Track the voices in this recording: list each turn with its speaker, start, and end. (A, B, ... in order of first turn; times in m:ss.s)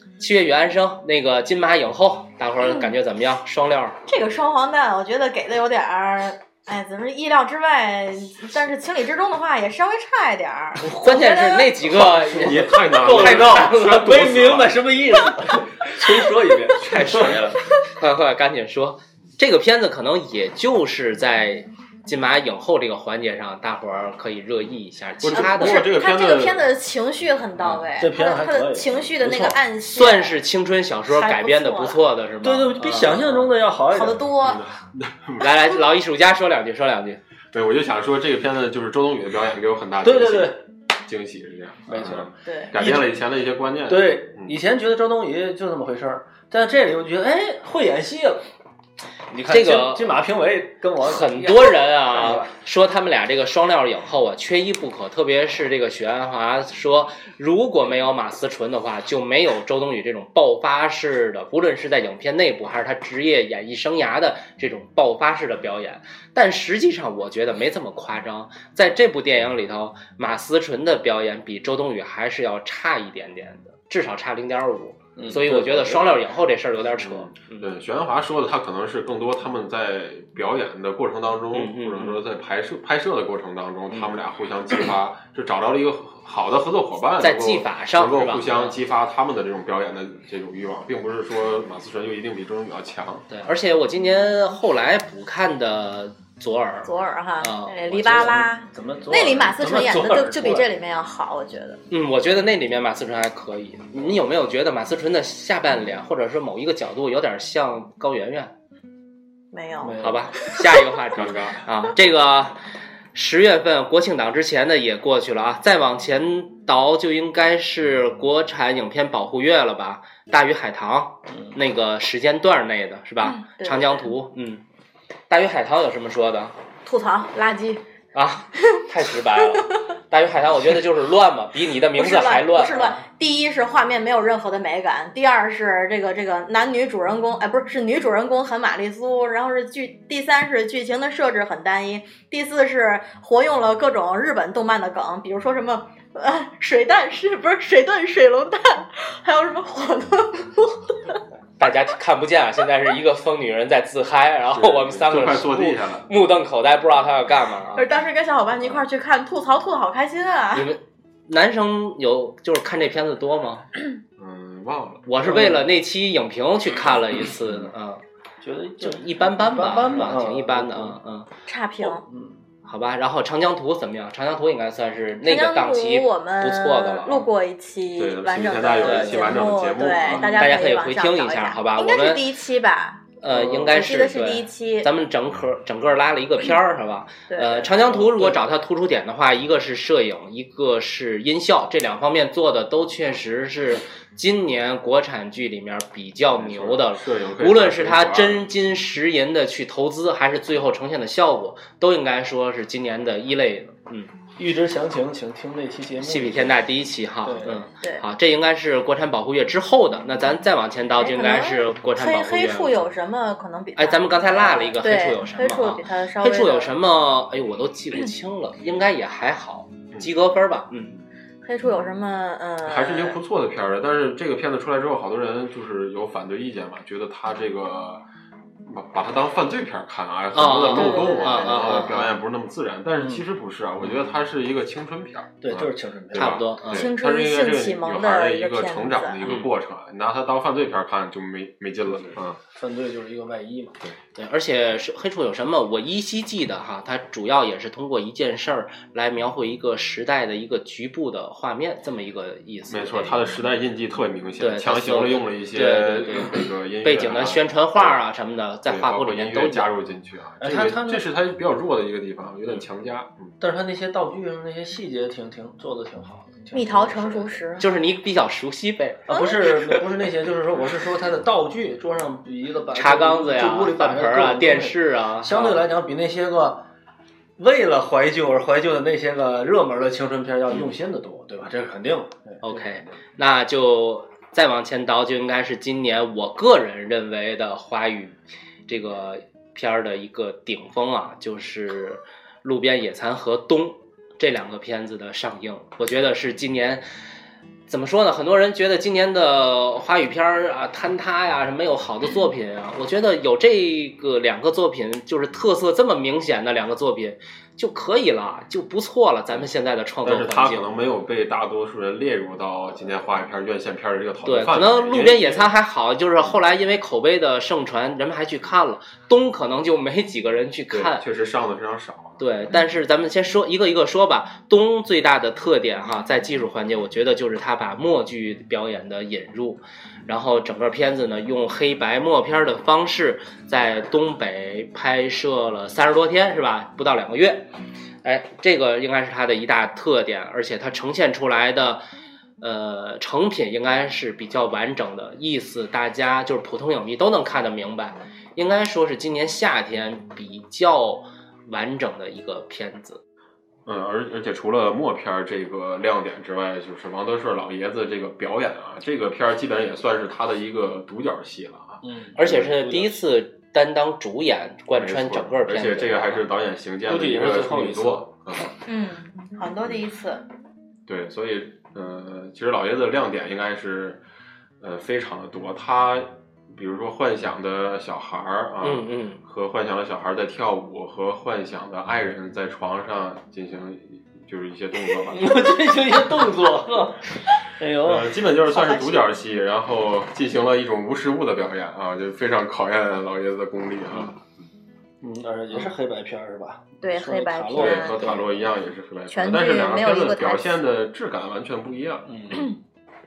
0:00.2-0:04.0 A
0:04.1-0:11.8 B
0:10.8-0:14.1 A
0:11.9-0:14.8 C
0:12.2-0:17.4 D
0:16.8-0:17.6 C
0:16.8-0:25.8 A
0:25.2-0:26.7 C
0:25.3-0:30.4 B
0:27.6-0:27.9 A
0:28.0-0:29.6 D
0:29.9-0:33.5 A
0:31.1-0:32.0 B
0:32.4-0:34.3 D
0:33.9-0:34.6 B
0:34.4-0:35.5 C
0:35.4-0:37.2 A
0:37.5-0:44.5 C
0:40.0-0:40.6 D
0:41.9-0:43.2 D
0:42.4-0:42.7 B
0:43.9-0:48.4 D
0:49.3-0:52.6 D
0:49.5-0:50.2 A
0:51.0-1:17.7 A
1:15.2-1:16.1 D
1:17.0-1:33.2 C
1:21.5-1:22.2 A
1:27.2-1:28.8 A
1:33.3-1:38.4 A
1:36.8-1:41.8 B
1:38.1-1:40.7 D
1:41.9-1:48.5 A
1:49.5-1:50.0 B
1:49.8-1:50.3 D
1:50.0-1:52.6 A
1:51.2-1:51.6 C
1:53.1-2:04.6 A
2:03.2-2:04.1 B
2:05.3-2:06.5 A
2:06.8-2:07.8 B
2:08.1-2:13.0 A
2:09.4-2:09.6 B
2:12.0-2:31.2 B
2:31.6-2:37.9 A
2:34.5-2:36.1 C
2:37.8-2:40.7 B
2:40.5-2:43.7 A
2:44.2-2:45.0 C
2:45.1-2:48.0 A
2:45.2-2:45.7 D
2:48.4-2:51.0 D
2:48.8-2:51.3 A
2:51.5-2:52.0 B
2:51.8-2:52.4 D
2:52.6-2:57.3 A
2:55.2-3:03.1 B
2:58.0-3:00.4 C
2:58.8-2:59.4 A
3:00.1-3:00.6 D
3:00.3-3:02.2 A
3:03.2-3:24.1 A
3:03.3-3:03.7 D
3:03.7-3:04.9 B
3:07.3-3:07.7 B
3:07.9-3:08.4 D
3:16.3-3:18.4 C
3:24.4-3:26.6 D
3:26.0-3:32.7 A
3:27.2-3:27.6 D
3:31.0-3:36.7 B
3:33.8-3:41.0 A
3:41.4-3:43.2 B
3:42.6-3:48.0 C
3:48.7-4:02.4 C
3:50.3-3:52.1 A
3:50.7-3:51.8 B
3:53.0-3:53.2 D
3:55.4-3:56.4 D
3:56.2-3:56.9 A
3:56.7-3:59.2 B
3:59.2-3:59.5 A
4:02.0-4:03.8 D
4:04.2-4:13.4 A
4:12.7-4:18.0 C
4:14.4-4:19.7 A
4:18.7-4:23.3 C
4:20.4-4:21.0 D
4:23.4-4:27.4 D
4:26.5-4:27.7 B
4:27.6-4:29.1 A
4:29.1-4:36.6 D
4:29.1-4:29.4 B
4:32.7-4:35.6 A
4:37.4-4:42.7 D
4:42.4-4:48.2 A
4:48.7-4:56.8 A
4:57.7-5:10.7 A
5:10.0-5:15.5 C
5:14.2-5:21.0 A
5:20.7-5:22.2 C
5:22.2-5:37.5 A
5:38.0-5:41.8 A
5:42.4-5:53.0 A
5:53.7-6:02.4 C
6:01.8-6:03.0 D
6:02.2-6:06.3 A
6:04.8-6:08.5 C
6:06.9-6:08.0 D
6:08.7-6:10.2 B
6:10.9-6:14.0 C
6:14.6-6:25.5 C
6:18.6-6:19.2 A
6:25.0-6:28.2 D
6:27.8-6:34.2 C
6:28.5-6:29.1 B
6:35.0-6:38.5 D
6:36.8-6:38.2 B
6:37.5-6:42.1 C
6:39.1-6:40.6 B
6:42.1-6:42.5 D